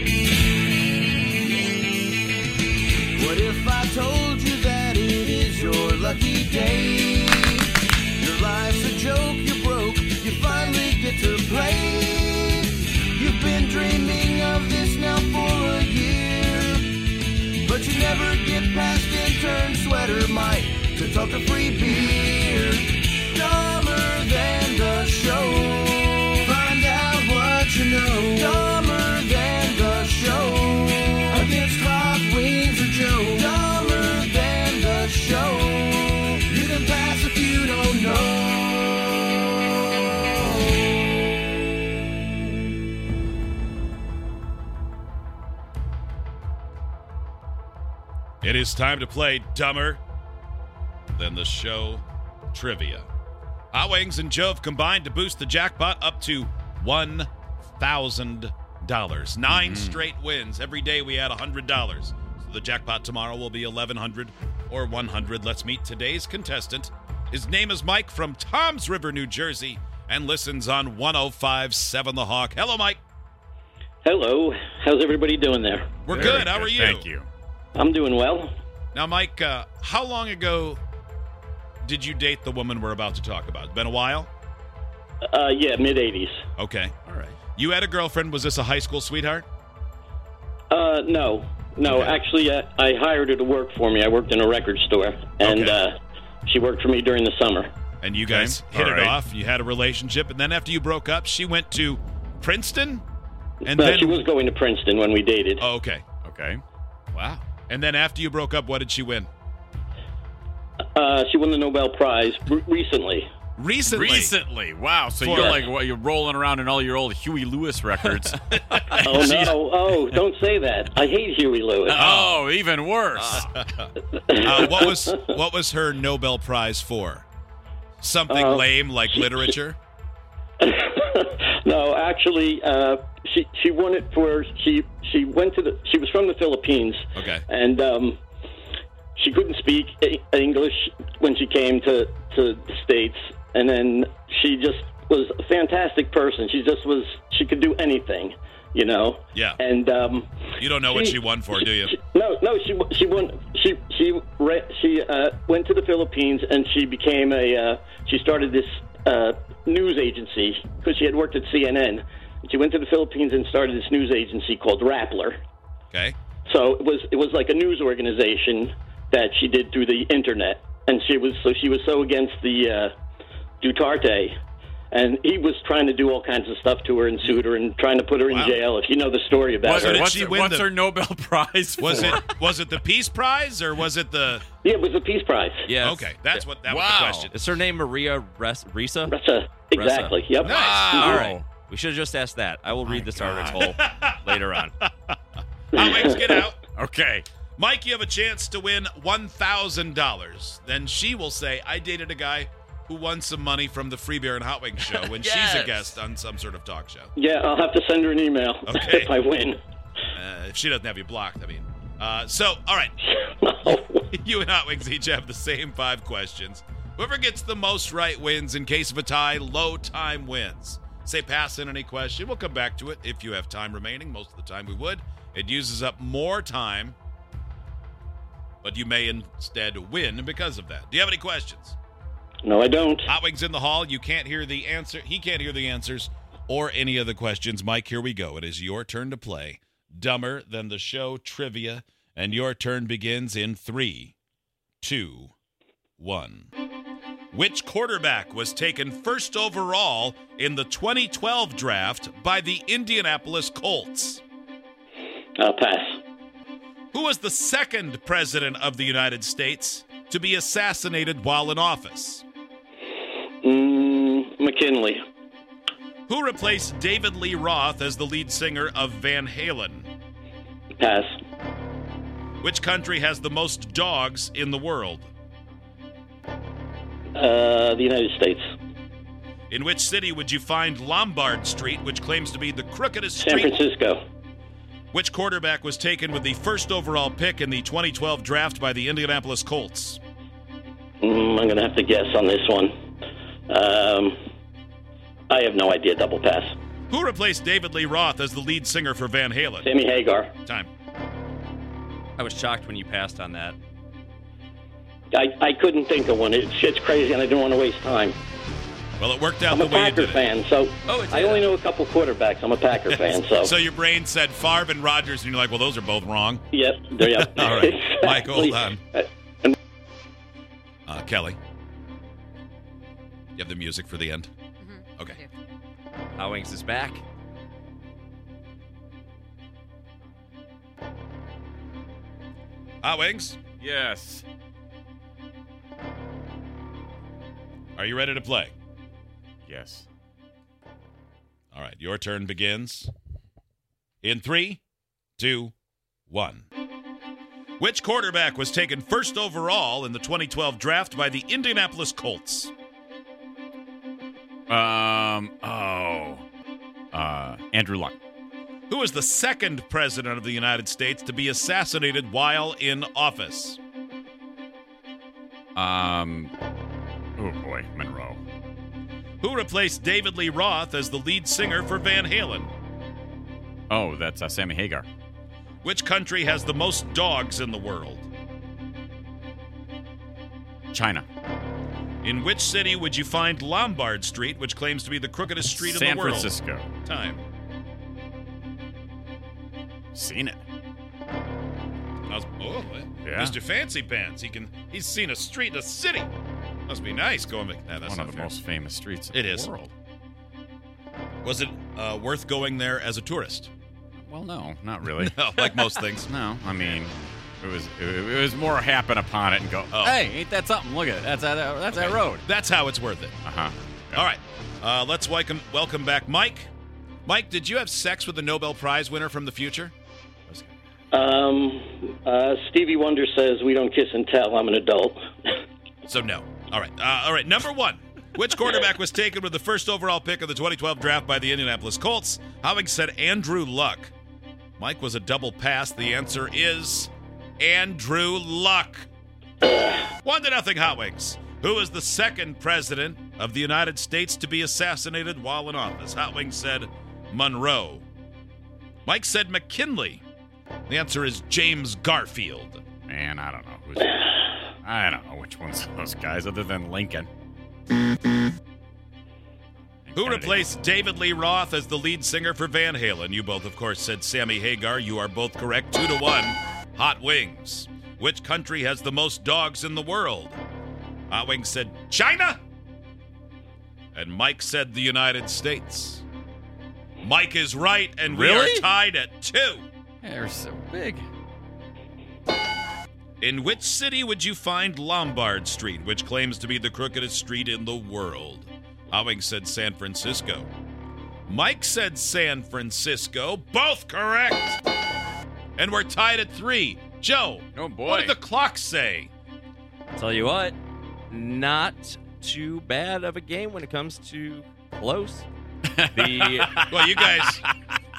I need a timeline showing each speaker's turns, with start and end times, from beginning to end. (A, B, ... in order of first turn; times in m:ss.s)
0:03.2-0:07.6 A
0:08.2-0:16.9 A
0:17.6-0:38.9 A
0:25.1-0:25.4 B
0:26.2-0:28.6 B
0:29.4-0:30.5 B
0:31.1-0:31.5 B
0:33.2-0:34.3 B
0:35.2-0:35.5 B
0:48.4-0:50.0 C
0:51.1-0:53.1 C
0:53.7-1:13.0 C
0:59.5-1:00.0 D
1:14.0-1:16.4 B
1:16.1-1:17.1 C
1:16.1-1:17.3 D
1:17.7-1:18.5 B
1:18.9-1:20.8 C
1:21.8-1:24.3 C
1:25.2-1:26.4 B
1:26.6-1:26.9 C
1:27.1-1:27.3 D
1:27.5-1:29.4 C
1:30.7-1:37.7 B
1:31.8-1:32.1 C
1:35.4-1:35.8 C
1:38.0-1:43.0 C
1:38.3-1:39.2 D
1:43.6-1:44.2 C
1:43.6-1:45.6 B
1:45.6-1:46.0 C
1:46.2-1:46.6 D
1:47.1-1:49.3 C
1:50.9-1:53.3 B
1:53.6-1:54.3 C
1:53.9-1:59.6 D
1:55.2-1:55.7 C
1:59.0-2:02.0 B
2:01.9-2:03.5 D
2:01.9-2:02.4 C
2:03.2-2:07.2 C
2:04.3-2:05.1 B
2:08.0-2:09.8 C
2:08.3-2:08.7 B
2:10.6-2:18.2 B
2:17.1-2:17.4 C
2:19.2-2:30.3 B
2:30.6-2:31.9 C
2:30.9-2:31.2 B
2:31.9-2:45.4 B
2:46.4-2:52.9 B
2:53.6-2:54.3 B
2:54.9-3:00.1 B
2:58.3-2:58.6 C
2:59.6-3:02.4 D
2:59.7-3:00.7 C
3:01.8-3:04.4 C
3:04.6-3:05.7 B
3:05.6-3:06.5 E
3:05.8-3:07.3 C
3:06.6-3:07.3 D
3:07.3-3:09.1 E
3:09.1-3:11.3 B
3:09.7-3:10.2 E
3:10.4-3:11.1 C
3:10.4-3:11.5 D
3:10.9-3:14.8 E
3:12.8-3:13.6 D
3:13.6-3:14.2 C
3:14.8-3:15.2 C
3:15.7-3:16.6 C
3:15.8-3:16.4 B
3:16.8-3:17.2 D
3:17.6-3:27.1 C
3:24.9-3:26.0 E
3:27.2-3:29.6 B
3:28.6-3:29.1 C
3:30.1-3:46.9 C
3:33.4-3:33.9 B
3:48.6-3:51.8 C
3:52.4-3:53.1 B
3:53.1-4:04.1 C
4:04.8-4:05.3 C
4:06.0-4:06.5 C
4:07.3-4:14.2 C
4:15.4-4:16.0 B
4:16.9-4:22.2 C
4:23.4-4:25.0 B
4:26.1-4:29.9 C
4:30.8-4:31.1 B
4:32.4-4:35.1 C
4:37.1-4:38.4 B
4:39.5-4:43.6 C
4:43.2-4:44.0 B
4:44.9-4:50.0 C
4:51.0-4:52.7 B
4:53.5-4:54.2 B
4:55.3-4:56.5 B
4:56.9-4:59.7 C
4:59.6-5:00.3 B
5:00.4-5:00.7 C
5:02.2-5:03.6 E
5:05.1-5:08.2 B
5:09.0-5:10.2 C
5:09.5-5:13.5 B
5:10.9-5:11.4 E
5:12.9-5:16.4 C
5:16.5-5:19.5 B
5:17.0-5:18.8 C
5:20.9-5:21.4 C
5:23.4-5:24.3 C
5:26.1-5:27.0 E
5:32.8-5:33.4 C
5:33.6-5:34.2 D
5:37.8-5:38.5 C
5:39.4-5:39.8 D
5:41.5-5:42.9 C
5:44.0-5:44.6 C
5:45.2-5:45.5 C
5:46.1-5:46.5 C
5:47.6-5:52.5 C
5:54.5-5:56.2 D
5:56.9-5:58.0 D
5:58.7-6:03.6 C
6:05.6-6:06.3 D
6:07.2-6:08.2 D
6:09.2-6:12.5 C
6:13.7-6:14.8 D
6:15.6-6:18.1 C
6:20.7-6:21.0 D
6:22.0-6:26.3 C
6:25.5-6:26.7 D
6:26.8-6:27.2 C
6:29.9-6:30.4 D
6:32.1-6:36.1 C
6:33.0-6:33.4 D
6:36.7-6:38.3 C
6:37.9-6:39.7 D
6:39.1-6:39.5 C
6:41.2-6:43.5 C
6:44.1-6:52.2 D
6:45.0-6:46.1 C
6:49.7-6:50.0 C
6:51.7-6:53.2 C
6:53.2-6:54.0 D
6:53.9-6:56.5 C
6:57.0-6:59.7 C
7:00.9-7:05.0 B
7:05.9-7:13.9 C
7:14.6-7:18.9 C
7:20.0-7:27.8 C
7:28.8-7:30.0 C
7:30.7-7:32.6 C
7:32.8-7:37.1 D
7:39.8-7:40.5 D
7:39.9-7:50.4 C
7:51.1-7:52.4 C
7:53.9-7:56.0 C
7:57.0-7:59.7 C
7:58.0-7:58.7 D
8:00.0-8:01.1 D
8:03.2-8:10.5 C
8:11.3-8:14.6 C
8:15.6-8:19.1 C
8:17.5-8:18.1 D
8:19.9-8:20.6 E
8:21.1-8:25.3 E
8:25.7-8:27.6 D
8:25.9-8:26.6 E
8:26.7-8:27.4 C